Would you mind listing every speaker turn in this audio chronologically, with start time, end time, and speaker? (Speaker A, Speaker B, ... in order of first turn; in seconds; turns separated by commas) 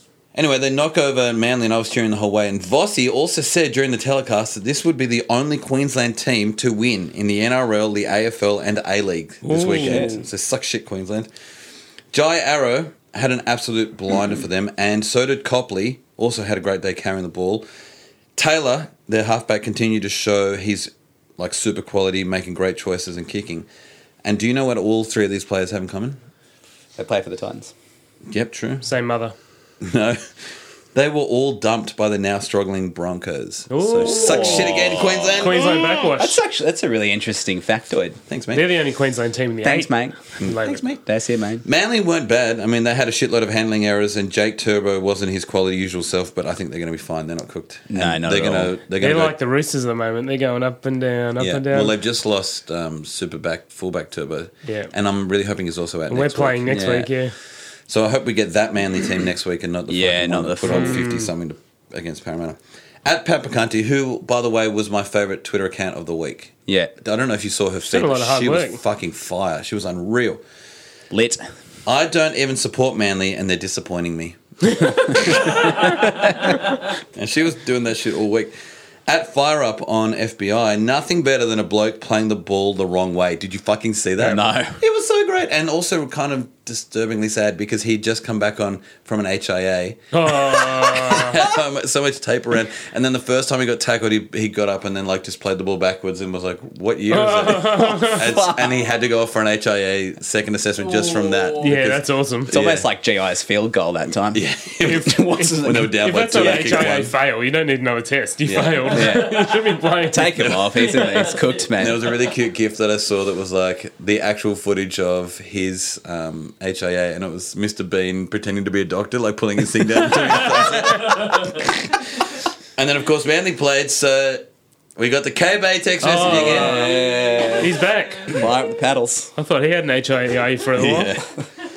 Speaker A: 0.3-11.3, Speaker B: 9.4-10.2, Speaker C: 9.7-10.2, Speaker A: 12.1-17.7, Speaker A: 18.4-23.7, Speaker A: 24.2-26.2, Speaker C: 27.0-27.7, Speaker A: 28.3-28.9, Speaker B: 28.8-29.3, Speaker A: 29.8-30.4, Speaker A: 30.9-35.8, Speaker B: 33.7-34.8, Speaker C: 34.0-38.2, Speaker B: 35.4-36.4, Speaker A: 38.3-38.7, Speaker B: 38.5-40.8, Speaker C: 39.6-40.2, Speaker A: 40.4-41.0, Speaker C: 41.0-41.6, Speaker A: 41.6-49.3, Speaker C: 47.9-48.7, Speaker B: 49.0-52.0, Speaker A: 51.4-56.9, Speaker B: 54.6-54.9, Speaker B: 56.1-57.3, Speaker C: 56.7-57.1, Speaker A: 57.9-70.4, Speaker C: 59.9-61.0, Speaker B: 60.6-61.3, Speaker C: 66.7-66.9, Speaker B: 67.9-68.8, Speaker C: 71.1-71.5, Speaker A: 71.8-76.0, Speaker C: 75.3-76.5, Speaker A: 77.1-78.5, Speaker A: 79.1-102.8, Speaker C: 84.2-84.8, Speaker B: 90.1-91.4, Speaker B: 97.1-98.3, Speaker C: 97.8-98.7, Speaker B: 101.6-102.5, Speaker C: 102.5-106.9, Speaker A: 104.3-107.1, Speaker B: 105.1-111.4, Speaker A: 108.4-109.2, Speaker C: 108.9-109.5, Speaker C: 110.1-112.0, Speaker A: 111.8-121.8, Speaker A: 122.8-124.5, Speaker A: 125.0-126.9, Speaker B: 126.0-128.4, Speaker C: 126.2-129.3, Speaker B: 129.3-131.1, Speaker A: 130.8-131.2